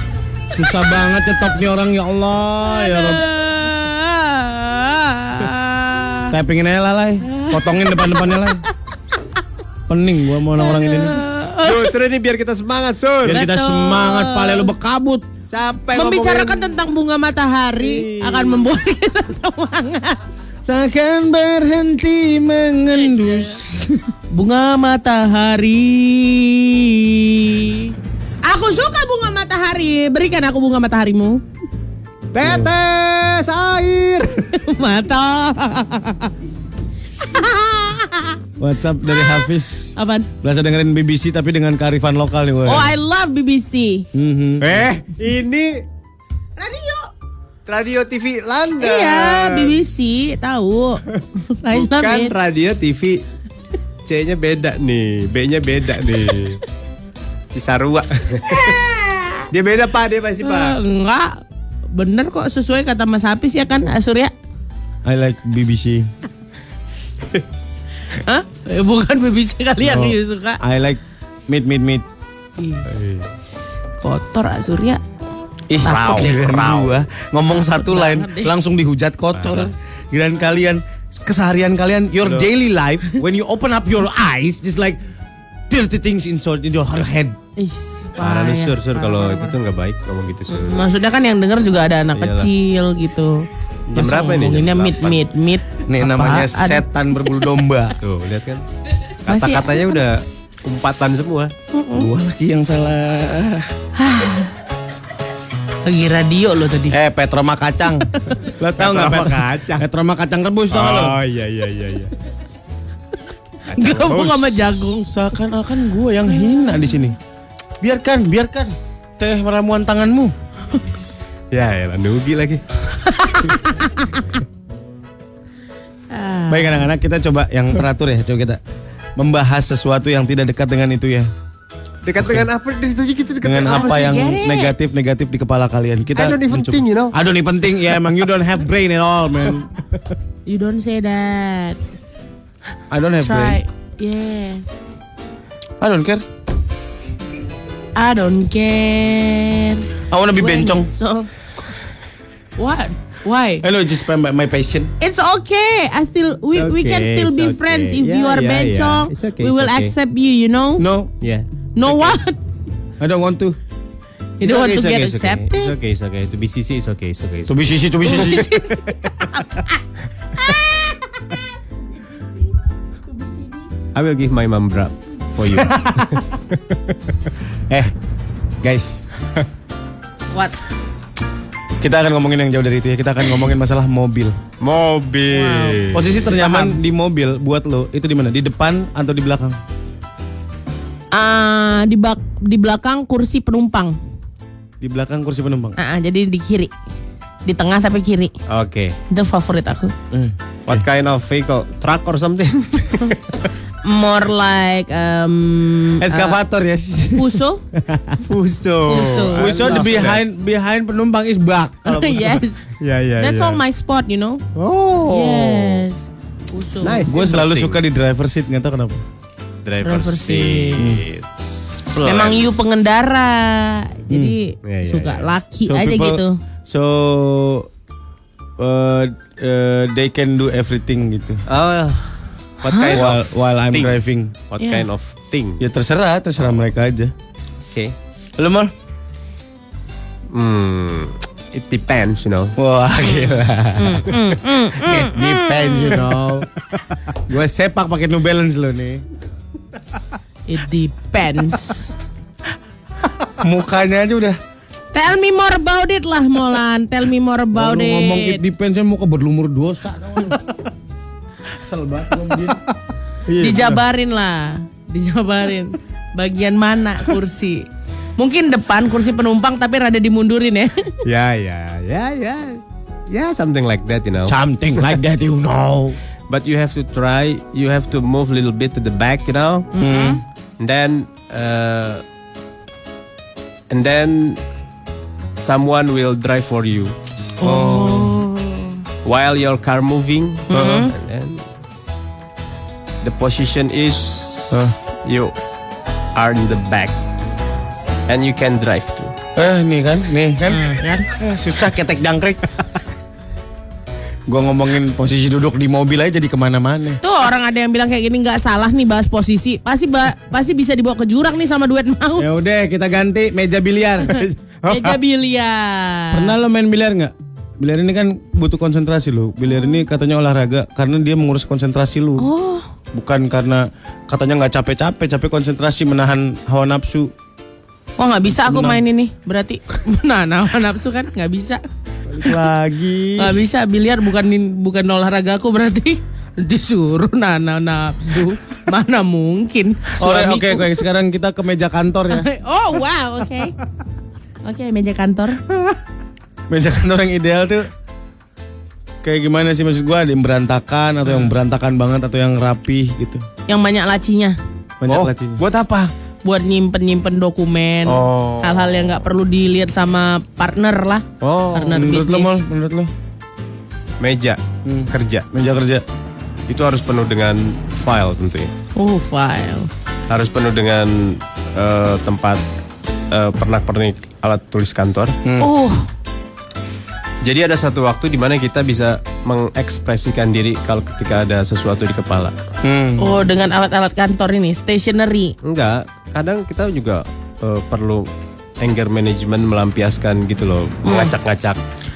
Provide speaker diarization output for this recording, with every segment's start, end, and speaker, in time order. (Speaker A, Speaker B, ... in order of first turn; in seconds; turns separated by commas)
Speaker A: 0.5-3.2, Speaker B: 2.6-6.3, Speaker A: 6.3-8.6, Speaker B: 7.2-8.7, Speaker A: 9.9-11.2, Speaker B: 10.6-11.9, Speaker C: 11.6-13.4, Speaker A: 13.2-15.3, Speaker B: 13.3-14.7, Speaker C: 15.5-16.8, Speaker B: 15.9-20.2, Speaker C: 17.8-18.7, Speaker A: 20.7-23.9, Speaker B: 23.1-31.4, Speaker C: 32.3-34.5, Speaker A: 32.4-32.7, Speaker B: 34.5-36.3, Speaker B: 37.2-38.4, Speaker A: 38.6-42.9, Speaker B: 39.1-40.3, Speaker B: 42.6-44.0, Speaker A: 44.1-44.9, Speaker C: 44.6-45.8, Speaker B: 46.6-47.1, Speaker C: 47.6-49.8, Speaker B: 48.8-52.3, Speaker C: 51.1-53.2, Speaker C: 54.0-56.6, Speaker C: 57.5-58.8, Speaker B: 58.4-59.5, Speaker C: 59.5-60.8, Speaker B: 60.4-64.3, Speaker A: 65.0-66.1, Speaker B: 68.1-70.6, Speaker A: 69.8-72.0, Speaker B: 72.6-72.9, Speaker C: 72.9-73.3, Speaker B: 74.0-75.0, Speaker A: 75.7-85.0, Speaker B: 75.8-76.3, Speaker C: 75.8-77.0, Speaker B: 77.5-78.6, Speaker C: 79.3-79.7, Speaker C: 82.2-82.5, Speaker A: 85.7-87.3, Speaker B: 87.6-89.5, Speaker C: 88.2-90.9, Speaker B: 90.5-96.8, Speaker C: 92.2-92.5, Speaker C: 93.9-95.2, Speaker A: 95.9-98.0, Speaker C: 98.0-98.6, Speaker C: 99.2-101.5, Speaker B: 99.2-100.0, Speaker B: 101.7-102.1, Speaker A: 101.9-103.7, Speaker B: 104.0-104.5, Speaker B: 105.8-107.0, Speaker A: 106.9-111.2, Speaker B: 108.1-108.4, Speaker C: 108.8-109.8, Speaker C: 110.7-112.1, Speaker C: 113.7-114.6, Speaker B: 113.7-115.1, Speaker A: 115.1-117.2, Speaker A: 117.8-120.3, Speaker C: 121.5-122.6, Speaker B: 122.9-124.2, Speaker B: 126.1-126.9, Speaker A: 126.5-128.6, Speaker A: 129.2-131.3, Speaker C: 132.0-134.2, Speaker A: 132.2-132.4, Speaker A: 133.4-139.7, Speaker B: 133.6-134.7, Speaker C: 136.1-137.2, Speaker B: 140.4-141.8, Speaker A: 142.9-143.6, Speaker B: 143.2-144.6, Speaker A: 145.8-146.2, Speaker B: 147.9-151.3, Speaker A: 150.1-150.9, Speaker B: 152.6-153.6, Speaker A: 153.6-154.9, Speaker B: 155.0-160.8, Speaker C: 156.5-159.9, Speaker A: 160.8-161.1, Speaker C: 161.2-162.0, Speaker B: 161.7-162.4, Speaker A: 163.0-163.6, Speaker B: 164.4-165.7, Speaker C: 164.4-169.3, Speaker A: 167.5-168.5, Speaker B: 168.0-171.4, Speaker B: 173.1-173.7, Speaker C: 173.9-176.8, Speaker A: 175.6-176.2, Speaker A: 178.6-179.0, Speaker A: 181.8-184.4, Speaker C: 184.6-186.2, Speaker B: 185.3-186.8, Speaker A: 185.9-189.6, Speaker B: 191.1-194.0, Speaker A: 194.8-195.8, Speaker B: 195.8-196.7, Speaker B: 197.4-198.3, Speaker C: 198.5-198.9, Speaker B: 199.1-199.9, Speaker A: 200.1-200.8, Speaker C: 200.7-203.3, Speaker B: 203.8-206.4, Speaker A: 206.0-208.2, Speaker B: 207.1-207.6, Speaker C: 208.2-210.2, Speaker B: 208.9-210.0, Speaker A: 209.3-212.4, Speaker B: 211.8-212.6, Speaker C: 212.8-213.6, Speaker B: 213.2-214.4, Speaker C: 214.5-215.8, Speaker B: 215.0-217.1, Speaker C: 216.8-217.8, Speaker A: 217.1-219.0, Speaker C: 219.6-222.5, Speaker B: 219.8-220.8, Speaker A: 220.8-221.0, Speaker B: 222.0-226.3, Speaker A: 224.1-224.3, Speaker C: 224.7-225.3, Speaker A: 225.7-227.7, Speaker A: 228.6-231.4, Speaker C: 231.5-232.1, Speaker C: 232.6-233.9, Speaker B: 232.6-233.0, Speaker A: 232.9-234.3, Speaker C: 234.5-235.6, Speaker B: 234.6-234.9, Speaker A: 235.6-237.1, Speaker A: 238.4-238.7, Speaker C: 240.3-242.5, Speaker A: 242.6-244.1, Speaker B: 243.0-246.2, Speaker A: 244.8-246.5, Speaker A: 247.3-249.0, Speaker B: 250.5-251.9, Speaker A: 253.4-254.4, Speaker B: 254.9-258.4, Speaker A: 257.5-260.7, Speaker A: 261.5-262.6, Speaker A: 263.3-263.8, Speaker B: 263.4-267.6, Speaker B: 268.2-271.0, Speaker C: 271.0-274.8, Speaker A: 274.3-276.0, Speaker C: 276.3-279.7, Speaker B: 279.7-280.2, Speaker A: 279.8-280.2, Speaker C: 280.6-282.0, Speaker C: 283.7-284.4, Speaker C: 285.4-286.9, Speaker B: 287.4-288.8, Speaker A: 287.4-288.2, Speaker C: 289.0-291.4, Speaker B: 290.5-290.9, Speaker A: 290.5-290.8, Speaker C: 293.0-295.3, Speaker A: 294.5-294.8, Speaker C: 296.1-296.9, Speaker C: 298.1-299.1, Speaker A: 299.4-302.5, Speaker B: 300.5-301.1, Speaker A: 304.3-307.0, Speaker B: 307.0-312.3, Speaker A: 312.2-314.2, Speaker B: 314.1-316.4, Speaker C: 314.4-315.0, Speaker A: 316.1-322.3, Speaker B: 322.2-322.7, Speaker A: 322.9-327.1, Speaker B: 328.0-331.6, Speaker A: 328.3-328.8, Speaker A: 332.1-333.4, Speaker B: 333.2-340.8, Speaker A: 339.9-342.3, Speaker B: 342.1-343.6, Speaker B: 344.4-345.4, Speaker A: 346.5-347.7, Speaker A: 349.0-353.2, Speaker B: 351.1-351.3, Speaker B: 353.5-354.4, Speaker A: 354.8-355.4, Speaker C: 354.8-355.9, Speaker B: 356.2-362.4, Speaker C: 357.9-359.0, Speaker C: 361.2-361.8, Speaker A: 361.7-362.9, Speaker C: 364.0-364.4, Speaker A: 364.6-365.8, Speaker C: 364.9-365.2, Speaker C: 366.5-368.5, Speaker B: 368.8-369.7, Speaker C: 370.1-372.4, Speaker C: 373.1-375.2, Speaker B: 375.4-375.9, Speaker C: 377.2-382.3, Speaker A: 382.6-383.3, Speaker B: 383.0-385.4, Speaker C: 385.4-388.1, Speaker C: 388.6-391.6, Speaker B: 390.8-391.1